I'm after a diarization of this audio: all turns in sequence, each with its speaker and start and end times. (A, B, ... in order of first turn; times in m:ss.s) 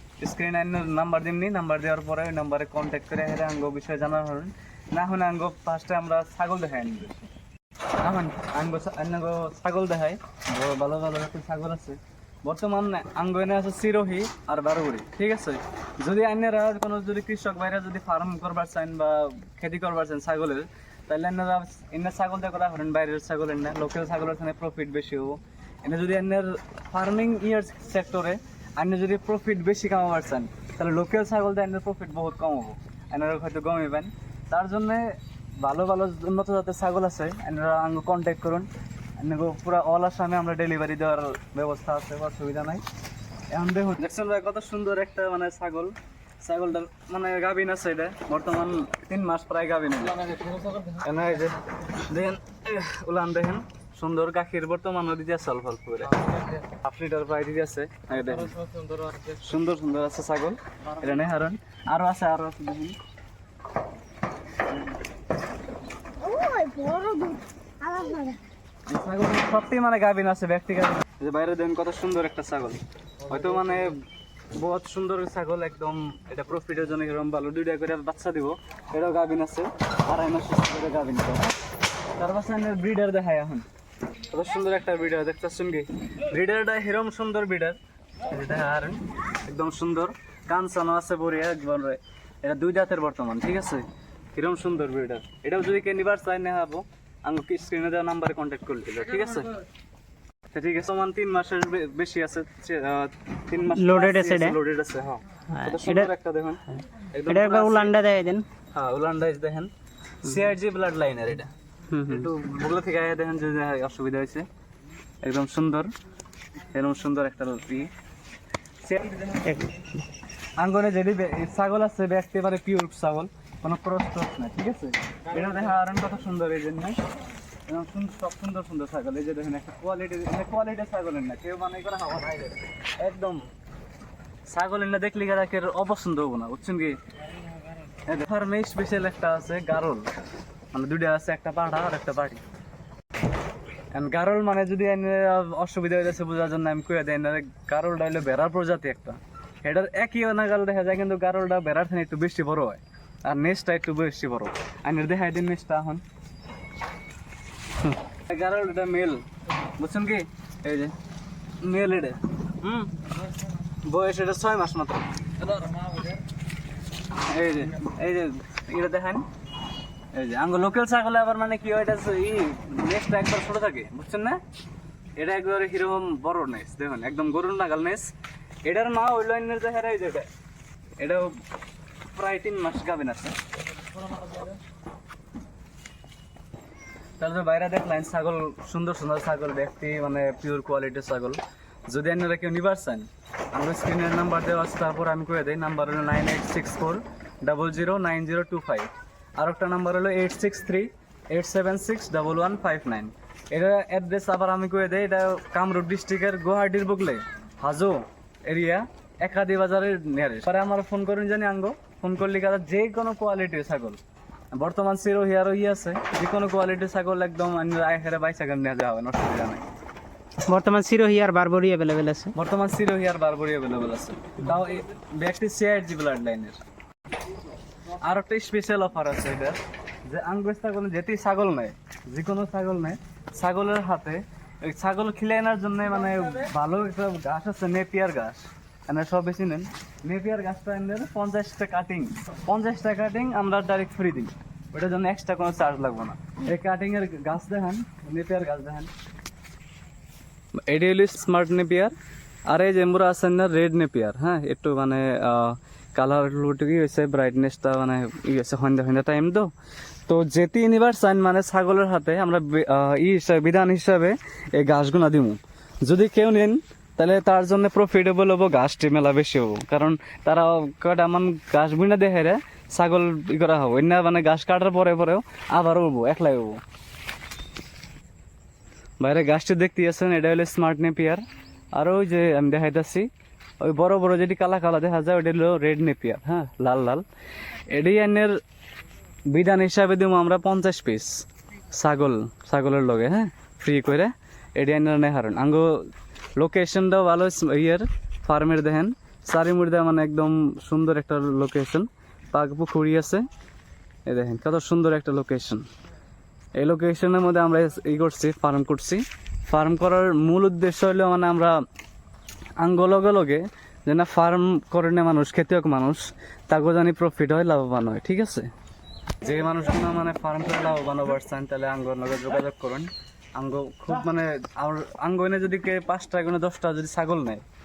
0:00.2-0:07.2 A
0:08.0-0:38.7 A
0:39.2-0:42.8 A
0:43.5-0:58.6 A
0:59.2-1:03.0 A
1:06.2-1:08.4 B
1:06.8-1:07.2 C
1:08.9-1:21.6 A
1:22.2-1:23.7 A
1:24.3-1:39.6 A
1:40.5-1:48.0 A
1:43.8-1:44.6 C
1:45.5-1:46.1 C
1:47.3-1:48.5 C
1:48.7-1:49.7 A
1:50.2-1:51.5 A
1:51.9-1:52.3 C
1:52.0-1:54.5 A
1:55.2-1:55.9 A
1:56.7-1:57.9 A
1:58.8-1:59.4 A
1:59.4-1:59.8 C
2:00.6-2:07.0 A
2:07.7-2:13.5 A
2:14.5-2:17.0 A
2:18.0-2:20.1 A
2:20.7-2:22.4 A
2:23.9-2:36.0 A
2:37.8-2:39.2 A
2:39.8-2:40.9 A
2:41.6-2:43.1 A
2:43.6-2:46.2 A
2:47.2-2:49.3 A
2:50.1-2:54.4 A
2:55.2-2:58.1 A
2:58.6-3:00.3 A
3:01.0-3:01.4 A
3:02.1-3:03.4 A
3:07.2-3:34.0 A
3:34.5-3:39.7 A
3:40.5-3:42.3 C
3:42.3-3:46.6 A
3:48.0-4:08.9 A
4:10.7-4:11.9 A
4:12.5-4:19.5 A
4:20.1-4:36.6 A
4:39.0-4:41.2 A
4:41.8-4:43.1 A
4:43.6-4:47.0 A
4:47.7-4:48.4 A
4:49.3-5:03.3 A
5:04.1-5:05.7 A
5:06.6-5:11.6 A
5:12.6-5:18.5 A
5:19.2-5:27.4 A